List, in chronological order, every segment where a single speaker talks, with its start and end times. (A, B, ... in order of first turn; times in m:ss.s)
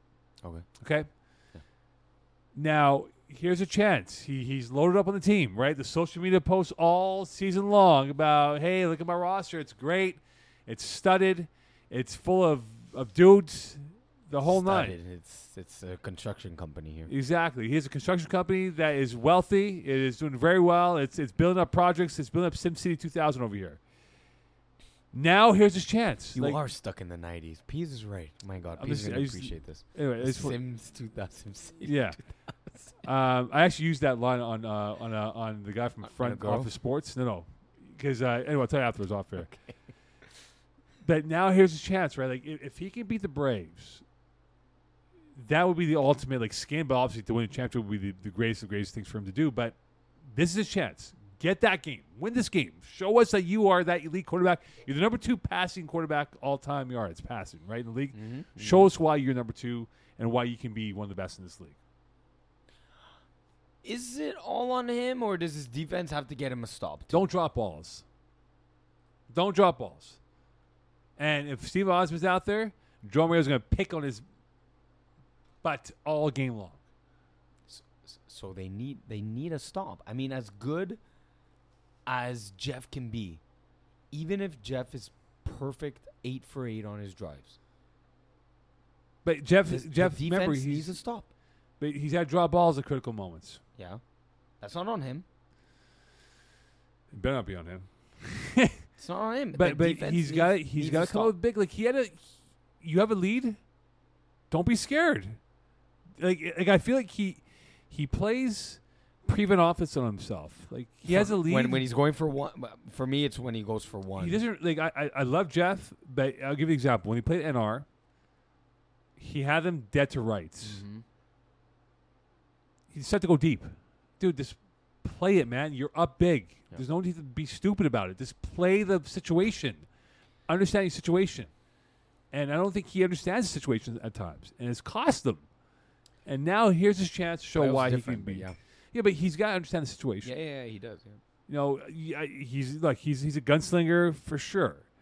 0:00.4-0:01.6 A
0:00.8-0:01.1 B
0:02.6-0:15.0 B
0:14.5-0:17.1 A
0:17.1-0:23.8 B
0:25.1-0:26.6 B
0:26.3-0:33.0 A
0:28.8-0:30.6 B
0:31.8-0:32.2 B
0:33.0-0:39.5 B
0:36.0-0:36.7 A
0:39.4-0:39.8 A
0:41.0-0:44.0 B
0:45.4-1:01.8 B
0:58.1-0:58.9 A
1:03.8-1:07.2 A
1:07.1-1:08.0 B
1:09.3-1:10.2 B
1:11.2-1:14.2 B
1:15.6-1:16.8 B
1:17.7-1:21.0 A
1:22.1-1:23.4 A
1:24.1-1:27.6 A
1:29.2-1:31.0 B
1:29.7-1:31.3 A
1:31.8-1:33.6 B
1:34.6-1:35.2 A
1:37.1-1:38.8 B
1:39.0-1:41.3 A
1:39.6-1:43.6 B
1:44.5-1:45.4 B
1:46.2-1:51.9 B
1:51.1-1:54.4 A
1:54.2-1:57.9 B
1:59.2-2:00.8 B
2:00.6-2:01.0 A
2:02.9-2:09.9 B
2:10.5-2:11.5 B
2:12.3-2:15.5 B
2:16.2-2:20.3 B
2:17.5-2:18.6 A
2:20.2-2:21.2 A
2:21.5-2:24.9 B